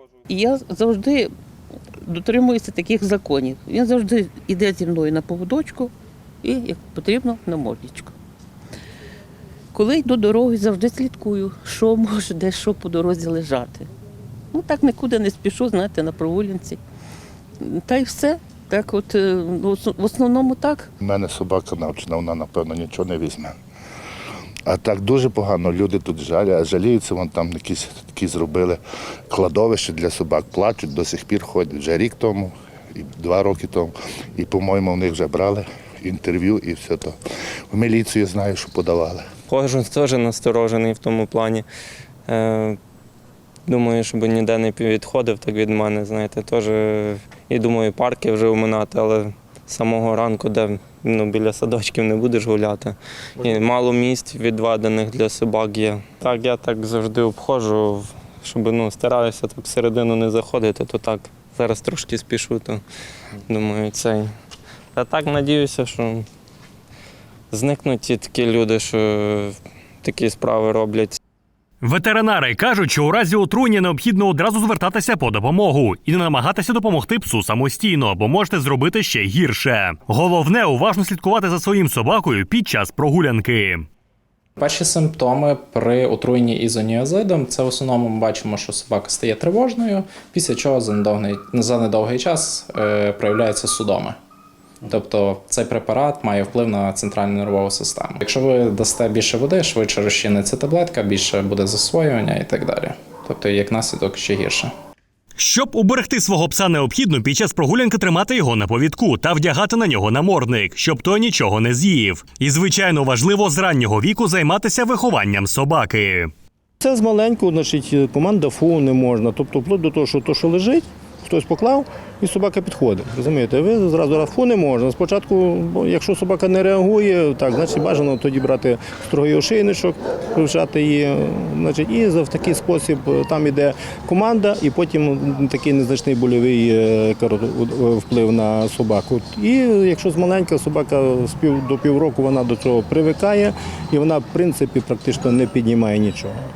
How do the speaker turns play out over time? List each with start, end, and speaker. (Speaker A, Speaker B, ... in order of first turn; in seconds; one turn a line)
Speaker A: 0.3-1.3
Speaker A: 2.0-8.1
Speaker A: 9.7-13.9
Speaker A: 14.5-16.8
Speaker A: 17.6-20.9
Speaker B: 21.0-23.5
Speaker B: 24.7-28.8
Speaker B: 29.3-37.2
Speaker B: 37.7-39.2
Speaker C: 39.5-41.7
Speaker C: 42.3-42.8
Speaker C: 43.7-62.8
Speaker C: 63.5-64.3
Speaker C: 64.9-66.3
Speaker C: 67.5-71.2
Speaker D: 71.8-83.9
Speaker E: 84.6-94.2
Speaker E: 94.9-104.7
Speaker D: 105.4-116.3
Speaker F: 116.8-146.4